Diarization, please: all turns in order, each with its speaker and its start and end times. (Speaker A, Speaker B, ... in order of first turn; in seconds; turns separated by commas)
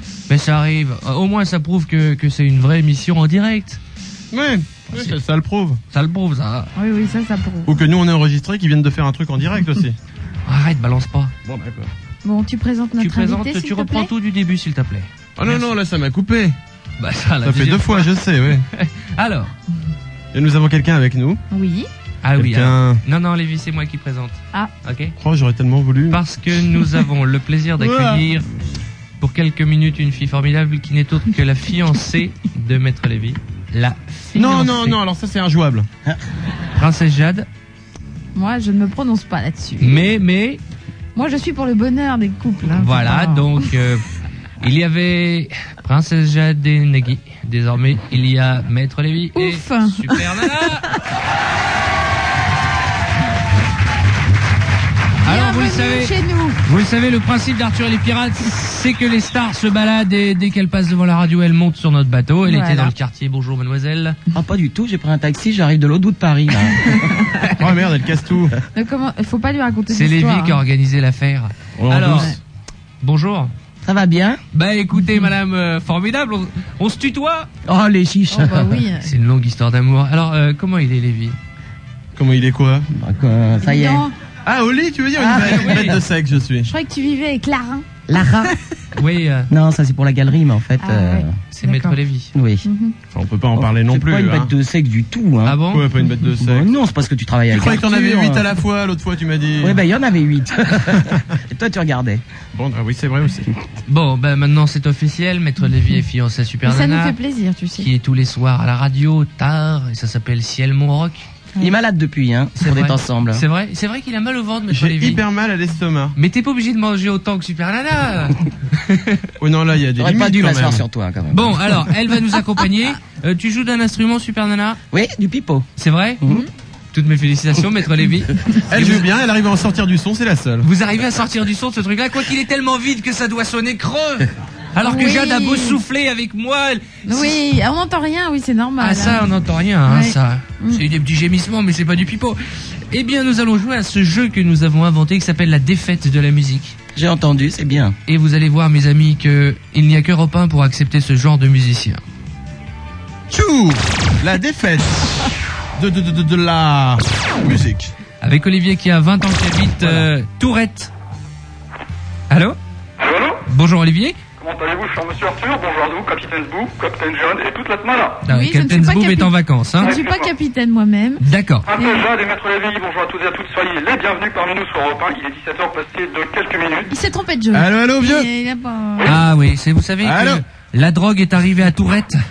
Speaker A: 0.3-3.8, Speaker B: 4.3-5.8, Speaker A: 5.9-6.7, Speaker C: 6.8-7.7, Speaker B: 7.7-9.9, Speaker A: 10.4-11.3, Speaker B: 11.4-11.9, Speaker C: 12.2-14.1, Speaker A: 13.0-15.7, Speaker B: 15.4-16.6, Speaker A: 17.0-19.5, Speaker B: 17.4-18.6, Speaker B: 20.3-21.4, Speaker C: 21.5-21.9, Speaker A: 22.2-25.1, Speaker B: 22.4-23.0, Speaker B: 25.2-26.2, Speaker A: 26.1-28.5, Speaker B: 27.8-28.2, Speaker A: 29.2-35.0, Speaker B: 34.3-35.9, Speaker A: 36.8-37.5, Speaker C: 38.3-40.0, Speaker A: 39.8-40.6, Speaker C: 41.1-43.6, Speaker A: 42.7-44.0, Speaker A: 44.6-50.9, Speaker C: 49.3-50.2, Speaker A: 55.2-64.2, Speaker C: 55.2-56.6, Speaker C: 62.4-62.9, Speaker D: 64.3-67.2, Speaker B: 67.5-68.5, Speaker C: 68.7-70.6, Speaker A: 69.9-72.3, Speaker B: 71.8-72.4, Speaker A: 73.0-73.5, Speaker D: 73.8-74.4, Speaker A: 74.5-77.5, Speaker D: 77.7-78.8, Speaker C: 78.3-79.1, Speaker A: 79.0-81.4, Speaker B: 82.1-82.9, Speaker D: 82.9-84.1, Speaker C: 83.6-84.1, Speaker B: 84.4-86.7, Speaker D: 85.2-86.0, Speaker A: 85.4-85.9, Speaker C: 86.6-87.9, Speaker D: 88.1-88.5, Speaker A: 88.9-89.5, Speaker D: 89.5-91.4, Speaker C: 90.8-92.0, Speaker A: 91.5-92.3, Speaker D: 92.3-92.6, Speaker C: 92.6-92.9, Speaker B: 93.1-94.5, Speaker D: 93.6-95.6, Speaker A: 95.4-95.8, Speaker B: 95.7-96.7, Speaker D: 96.3-98.4, Speaker B: 97.5-99.8, Speaker D: 99.6-102.2, Speaker B: 102.5-103.5, Speaker A: 103.9-107.2, Speaker C: 106.6-107.9, Speaker A: 107.8-111.3, Speaker D: 111.6-113.4, Speaker A: 112.6-115.2, Speaker B: 114.7-116.2, Speaker A: 116.2-119.2, Speaker B: 119.4-120.8, Speaker D: 120.0-121.7, Speaker A: 121.3-124.8, Speaker D: 124.9-125.7, Speaker A: 125.8-126.2, Speaker A: 126.9-129.0, Speaker B: 128.7-130.7, Speaker A: 130.6-137.4, Speaker C: 134.8-135.8, Speaker C: 137.1-139.3, Speaker A: 138.8-142.4, Speaker C: 139.8-140.8, Speaker A: 142.9-146.8, Speaker D: 146.9-147.9, Speaker A: 148.1-152.0, Speaker B: 153.3-157.9, Speaker A: 158.2-160.9, Speaker B: 159.8-160.1, Speaker A: 162.3-162.6, Speaker E: 163.0-163.4, Speaker A: 163.4-164.2, Speaker E: 164.4-168.2, Speaker A: 168.2-170.0, Speaker C: 168.2-172.1, Speaker E: 169.8-170.3, Speaker A: 171.2-171.7, Speaker E: 171.7-176.9, Speaker C: 176.9-179.2, Speaker B: 177.5-178.3, Speaker A: 179.0-182.2, Speaker B: 180.0-180.4